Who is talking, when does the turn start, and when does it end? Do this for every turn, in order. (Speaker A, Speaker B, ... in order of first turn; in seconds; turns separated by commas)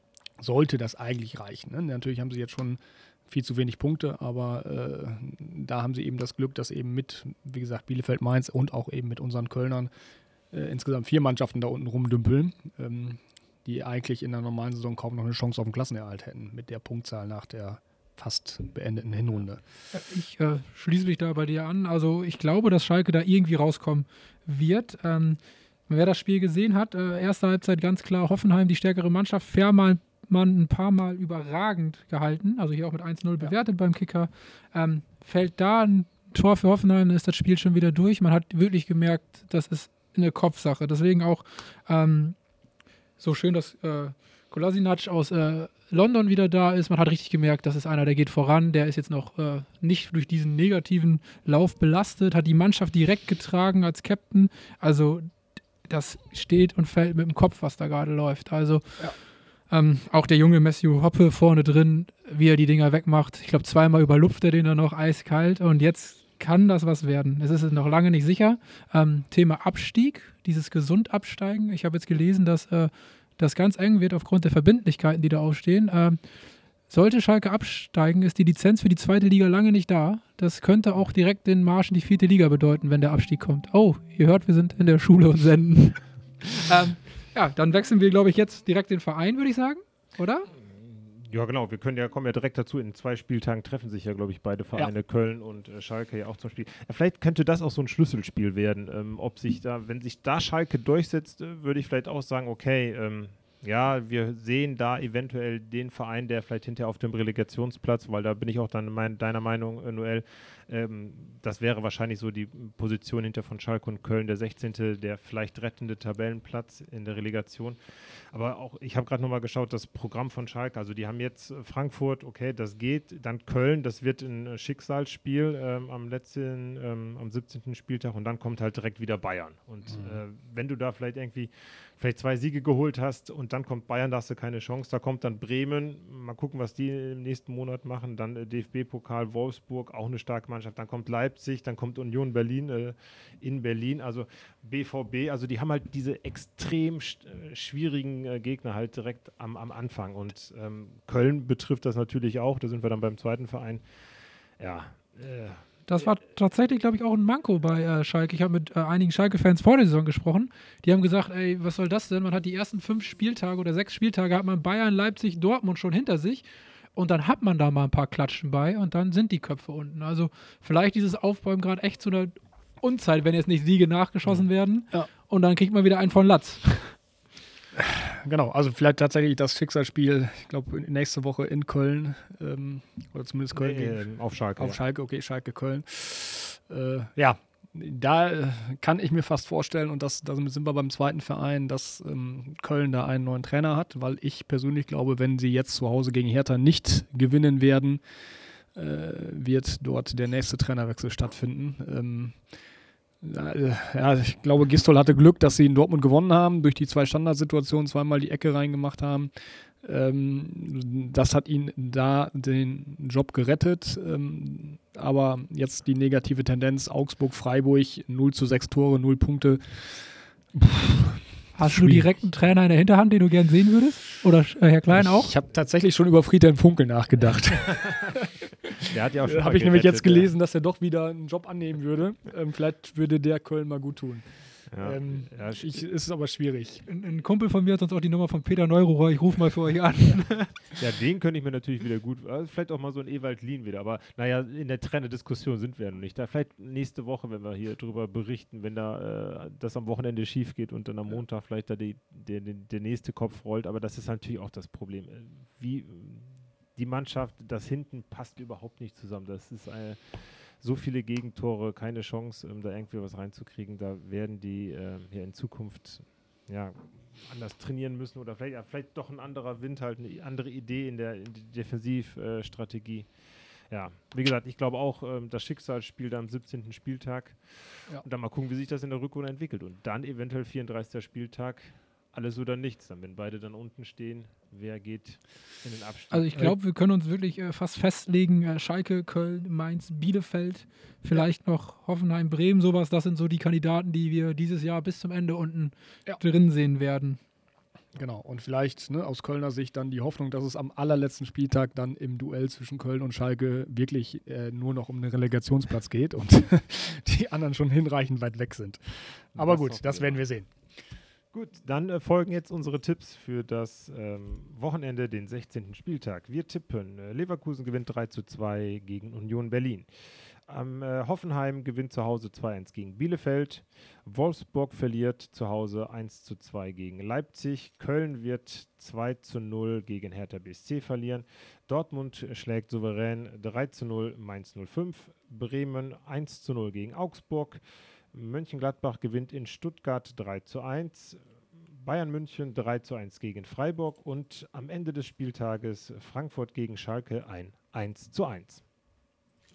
Speaker A: 0.4-9.9, Speaker A: 10.5-19.6, Speaker B: 19.9-42.4, Speaker B: 43.2-55.3, Speaker B: 55.8-59.1, Speaker B: 59.7-76.2, Speaker B: 76.9-90.5, Speaker C: 90.5-117.8, Speaker C: 118.3-153.8, Speaker C: 154.6-155.6, Speaker B: 155.9-176.9, Speaker A: 177.7-184.1, Speaker C: 183.5-184.8, Speaker A: 184.6-198.0, Speaker A: 198.7-202.4, Speaker A: 203.2-222.1, Speaker B: 221.5-225.3, Speaker A: 224.9-236.8, Speaker C: 228.9-230.3, Speaker C: 234.7-235.7, Speaker B: 236.9-240.6, Speaker C: 240.8-273.1, Speaker C: 273.7-286.5, Speaker B: 286.1-297.2, Speaker A: 297.9-310.5, Speaker C: 309.4-310.2, Speaker C: 311.3-319.9, Speaker C: 320.5-337.6, Speaker C: 338.1-341.2, Speaker C: 341.7-348.6